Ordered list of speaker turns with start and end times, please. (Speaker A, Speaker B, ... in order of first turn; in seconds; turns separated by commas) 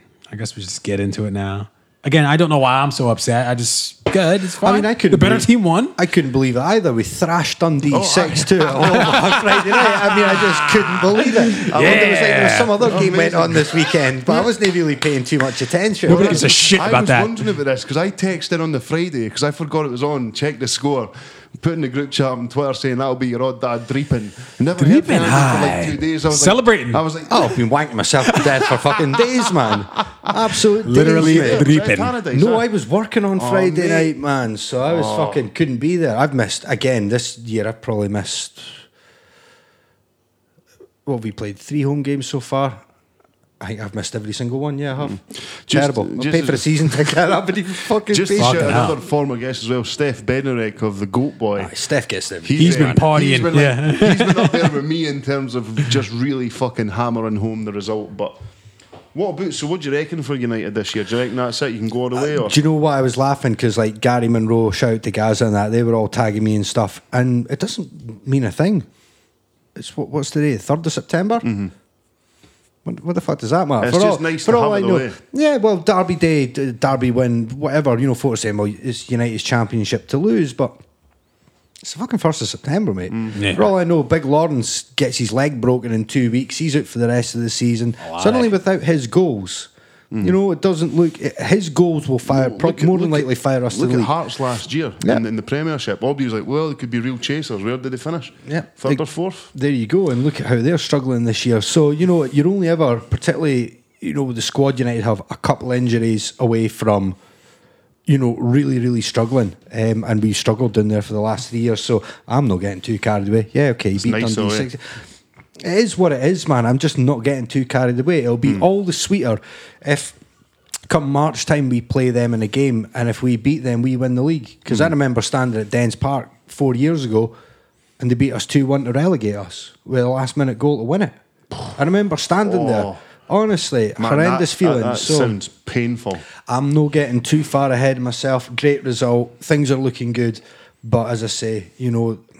Speaker A: 0.3-6.0, Speaker B: 4.6-16.5, Speaker C: 7.9-9.8, Speaker A: 10.2-12.8, Speaker C: 11.7-14.5, Speaker C: 16.1-27.6, Speaker A: 16.1-17.3, Speaker A: 24.8-27.0, Speaker B: 27.3-31.7, Speaker C: 28.4-29.7, Speaker A: 30.8-32.1, Speaker C: 31.0-32.7, Speaker B: 32.3-38.8, Speaker C: 33.4-34.1, Speaker C: 34.9-35.4, Speaker B: 41.1-42.8, Speaker B: 43.6-48.9, Speaker C: 45.0-47.2, Speaker C: 48.1-51.7, Speaker A: 48.4-49.0, Speaker B: 51.6-53.0, Speaker C: 52.4-58.4, Speaker A: 52.6-54.7, Speaker C: 59.1-62.6, Speaker B: 62.1-68.9, Speaker B: 69.8-71.5, Speaker C: 71.4-71.7, Speaker B: 72.8-80.8, Speaker C: 73.8-75.2, Speaker B: 81.8-89.7, Speaker C: 83.1-83.4, Speaker A: 83.3-83.7, Speaker A: 88.0-88.5, Speaker B: 90.2-94.1, Speaker C: 92.3-99.5, Speaker B: 98.5-107.2, Speaker B: 108.1-115.0, Speaker C: 114.0-114.7, Speaker B: 115.6-120.2, Speaker B: 120.9-127.3, Speaker B: 128.0-131.2, Speaker B: 131.7-135.4, Speaker C: 132.4-133.0, Speaker C: 134.0-136.3, Speaker B: 136.4-142.2